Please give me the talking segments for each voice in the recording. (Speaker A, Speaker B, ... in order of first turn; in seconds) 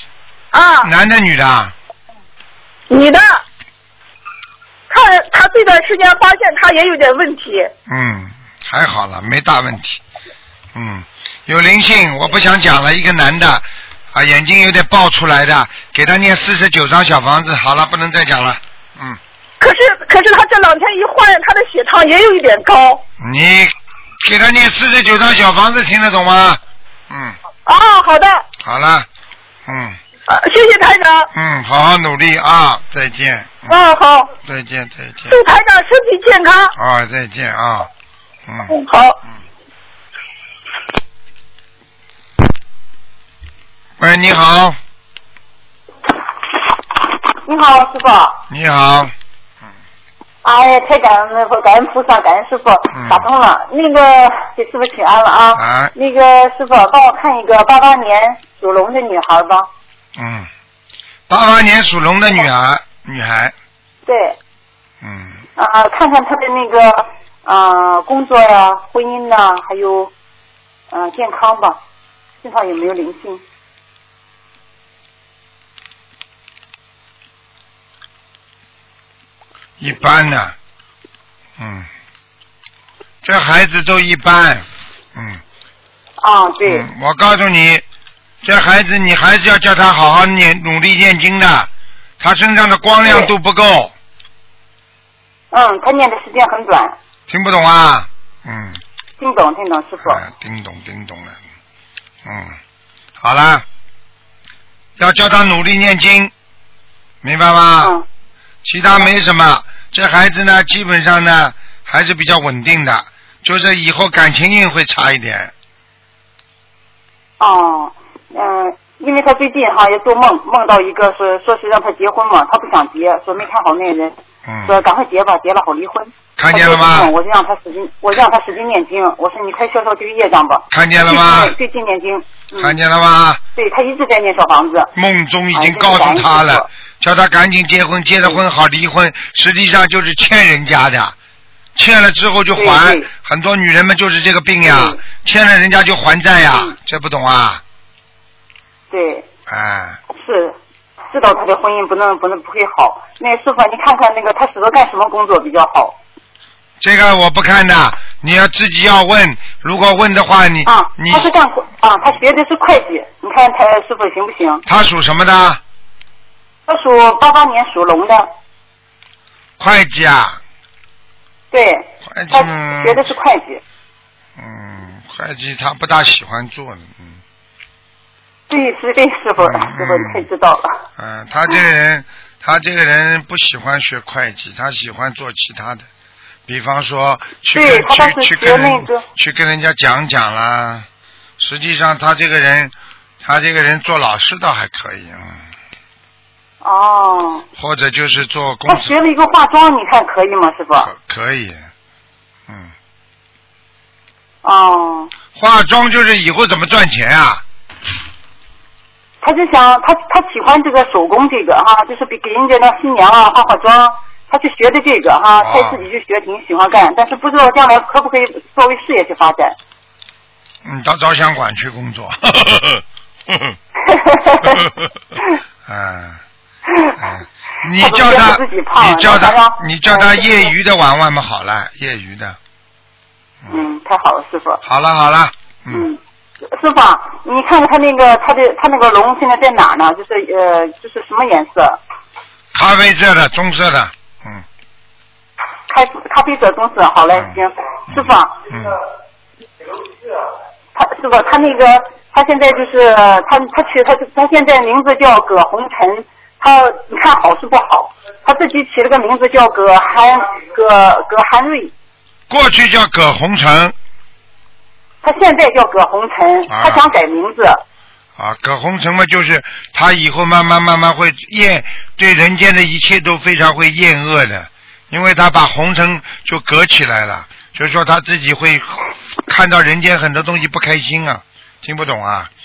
Speaker A: 0.5-0.9, 2.9-3.4, 4.9-7.7, 19.6-23.0, 27.7-28.4, 30.3-31.3, 33.7-34.3, 35.3-36.7, 38.7-39.2
Speaker B: 0.8-1.7, 7.9-10.0, 10.7-19.2, 23.2-27.4, 28.6-29.1, 29.7-30.0, 31.3-33.8, 34.4-35.4, 36.8-37.9, 38.5-38.7, 44.0-44.8, 48.5-49.1, 52.9-53.3, 55.6-55.9, 60.2-60.5, 61.3-63.5, 65.0-65.4, 79.8-80.5, 81.6-81.9, 83.2-85.4, 86.7-87.8, 88.4-91.7, 92.2-93.9, 97.3-98.8, 100.0-101.4, 102.2-102.6, 103.2-103.7, 105.0-106.3, 107.2-107.9, 108.6-115.5, 124.5-124.8, 126.4-127.1, 130.7-131.6, 132.6-133.4, 134.9-141.2, 141.8-147.6, 149.5-150.0, 156.8-161.3, 164.7-165.6, 169.6-170.4, 172.1-173.1, 174.4-177.2, 179.4-180.3, 181.0-185.9, 186.5-190.9, 191.4-195.4, 197.6-198.9, 200.8-201.6, 205.3-207.4, 215.4-215.8, 220.6-223.6, 225.7-226.2, 227.0-232.4, 234.6-235.8, 242.5-244.4, 247.9-248.8, 262.3-263.8, 266.5-266.9, 268.2-282.3
Speaker C: 47.5-48.4, 50.4-59.7, 64.1-64.4, 65.6-70.1, 70.9-71.8, 72.4-73.4, 86.2-86.9, 93.0-93.3, 95.5-97.0, 99.2-100.2, 117.4-124.1, 124.7-132.8, 133.6-134.9, 135.5-136.7, 142.6-143.1, 144.6-145.0, 148.9-149.3, 150.1-150.6, 151.1-156.0, 160.7-164.6, 166.7-168.3, 171.5-173.6, 178.5-180.8, 187.5-189.1, 196.6-197.5, 198.7-200.9, 204.4-205.1, 209.2-219.6, 223.8-224.6, 227.8-230.5, 233.5-234.6, 235.7-236.0, 236.5-241.8, 245.7-248.4, 250.8-261.7, 265.0-267.6